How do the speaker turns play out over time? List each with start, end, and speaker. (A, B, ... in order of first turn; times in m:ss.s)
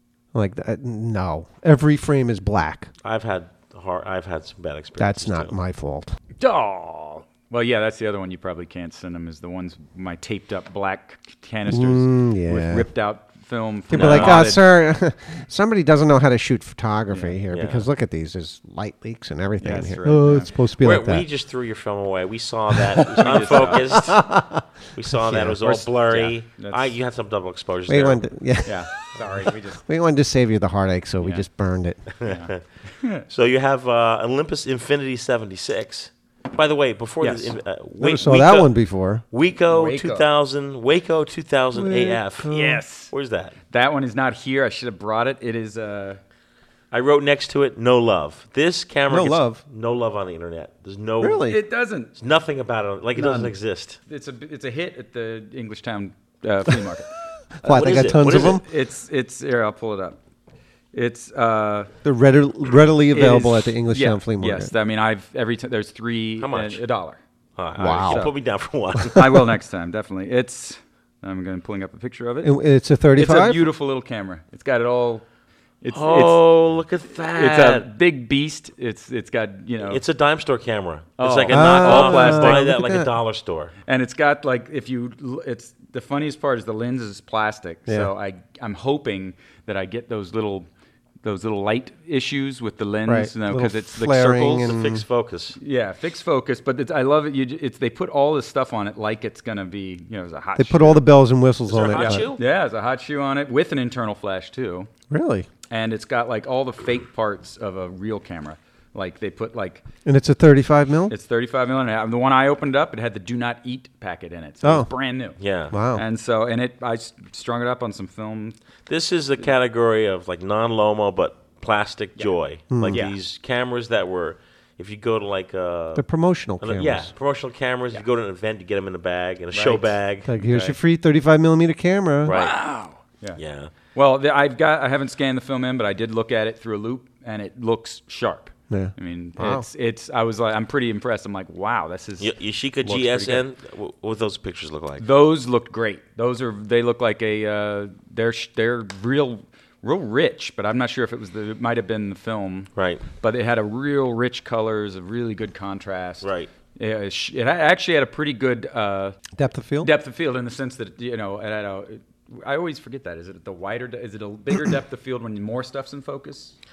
0:00.3-0:02.9 A
0:03.0-0:05.6 B
0:05.0-0:06.1 A
0:06.4-0:14.6 C
0:11.7-0:12.9 A
0:13.9-0:21.2 A
0:13.9-0:14.4 B
0:17.1-0:17.4 C
0:17.5-0:17.9 B
0:19.6-0:20.5 C
0:20.8-0:24.2 B
0:23.2-0:23.8 C
0:23.8-0:25.6 A
0:24.9-0:28.2 B
0:25.6-0:26.9 C
0:27.9-0:32.0 A
0:28.6-0:29.8 C
0:31.2-0:31.5 C
0:32.2-0:33.2 C
0:32.2-0:32.6 B
0:33.3-0:38.7 B
0:37.2-0:37.6 C
0:38.0-0:39.2 A
0:39.3-0:42.5 B
0:39.7-0:40.3 C
0:41.7-0:42.8 A
0:42.5-0:43.1 C
0:43.1-0:43.6 B
0:43.7-0:46.2 C
0:46.9-0:51.6 B
0:49.1-0:49.6 A
0:51.2-0:51.6 A
0:51.5-0:52.1 C
0:52.2-0:54.0 B
0:53.2-0:53.5 C
0:54.1-0:57.1 C
0:57.6-0:58.6 A
0:57.6-0:58.6 B
0:58.2-1:00.2 C
1:00.9-1:01.9 C
1:02.0-1:04.7 A
1:03.1-1:07.2 C
1:06.4-1:06.8 B
1:07.6-1:09.3 B
1:07.8-1:08.2 A
1:08.0-1:08.3 C
1:09.1-1:12.6 C
1:12.4-1:13.6 A
1:13.2-1:15.2 C
1:15.8-1:16.5 C
1:15.9-1:17.9 B
1:17.4-1:20.0 C
1:19.8-1:23.7 B
1:21.2-1:22.6 C
1:21.5-1:23.1 A
1:23.9-1:30.7 C
1:31.2-1:34.7 C
1:33.1-1:35.0 A
1:34.6-1:35.6 B
1:35.6-1:41.1 C
1:40.6-1:42.3 A
1:41.7-1:42.4 B
1:41.9-1:44.9 C
1:45.1-1:45.5 A
1:45.7-1:49.8 C
1:50.0-1:51.1 A
1:51.1-1:55.4 C
1:54.6-1:54.9 A
1:55.4-1:55.7 B
1:55.7-1:56.0 A
1:55.9-1:58.6 C
1:58.9-2:06.1 B
2:02.2-2:03.2 C
2:02.7-2:03.0 A
2:06.0-2:07.1 A
2:06.6-2:10.3 B
2:09.5-2:10.8 C
2:10.2-2:12.3 A
2:12.2-2:12.6 B
2:12.3-2:22.3 C
2:13.4-2:13.7 B
2:18.7-2:19.6 A
2:22.2-2:25.0 B
2:22.8-2:23.4 C
2:25.0-2:39.2 C
2:32.8-2:33.0 B
2:36.2-2:36.5 B
2:39.4-2:39.9 A
2:39.8-2:46.6 C